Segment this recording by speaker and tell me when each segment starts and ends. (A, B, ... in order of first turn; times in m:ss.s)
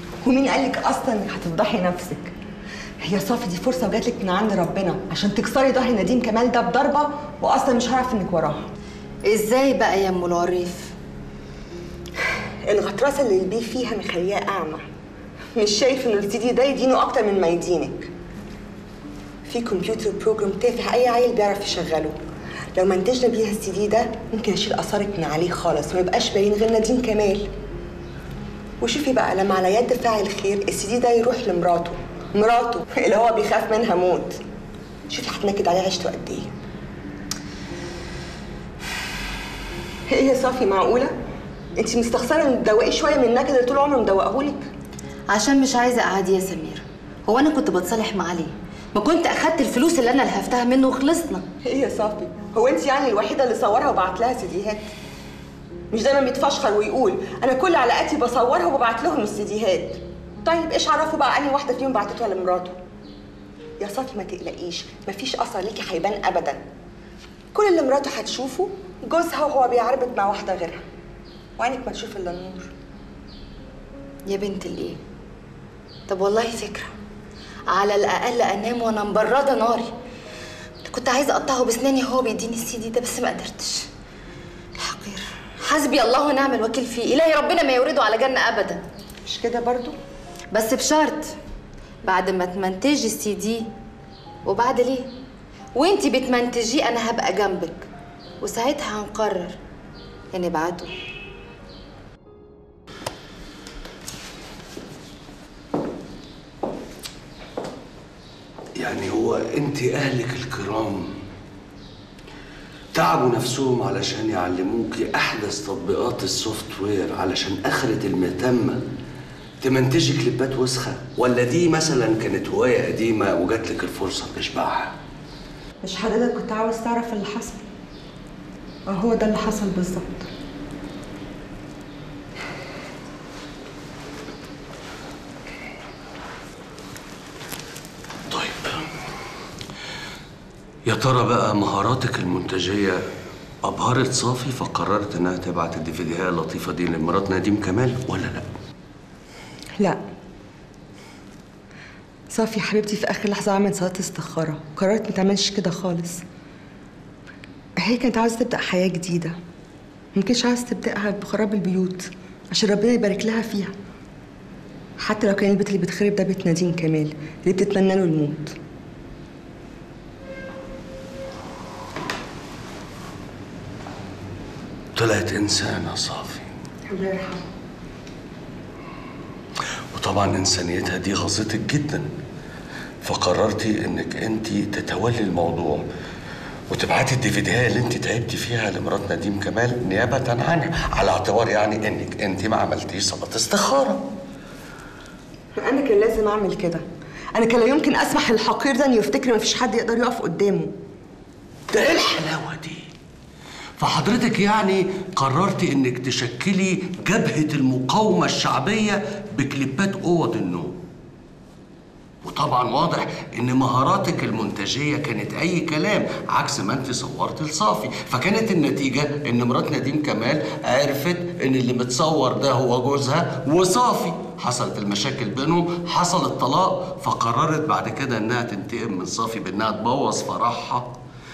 0:00.2-0:02.3 A
0:03.0-0:08.7 A
0:09.2-0:10.9 B
0:12.6-0:14.8 A
0:15.5-0:18.1 A
0:19.4-0:22.2 A
0:22.7-0:27.5 A
0:28.8-0:34.4 A
0:35.1-0:36.5 A
0:40.1-0:41.1 A
0:41.8-0:44.7 A
0:45.3-0:51.4 B
0:51.6-0:54.9 A
0:55.9-1:02.8 A
1:03.8-1:06.6 A
1:07.5-1:10.8 A
1:11.6-1:12.7 A
1:14.3-1:15.0 B
1:16.1-1:16.9 B
1:17.7-1:19.9 B
1:20.8-1:23.8 B
1:24.8-1:28.8 B
1:29.2-1:29.9 A
1:30.5-1:31.3 B
1:32.0-1:33.7 B
1:34.4-1:35.1 B
1:35.7-1:37.9 B
1:38.4-1:39.6 B
1:40.3-1:40.9 B
1:48.8-1:51.1 C
1:52.9-1:58.8 C
1:59.6-2:04.9 C
2:05.8-2:07.6 A
2:08.9-2:10.3 A
2:18.3-2:18.8 C
2:20.8-2:23.0 C
2:23.6-2:28.5 C
2:32.3-2:36.2 A
2:37.8-2:39.4 A
2:40.1-2:43.7 A
2:45.0-2:48.5 A
2:54.9-2:56.5 C
2:56.8-2:57.4 A
2:59.9-3:02.1 C
3:03.0-3:05.8 C
3:06.7-3:14.0 C
3:15.6-3:20.7 A
3:21.7-3:22.9 C
3:23.8-3:30.7 C
3:32.2-3:50.9 C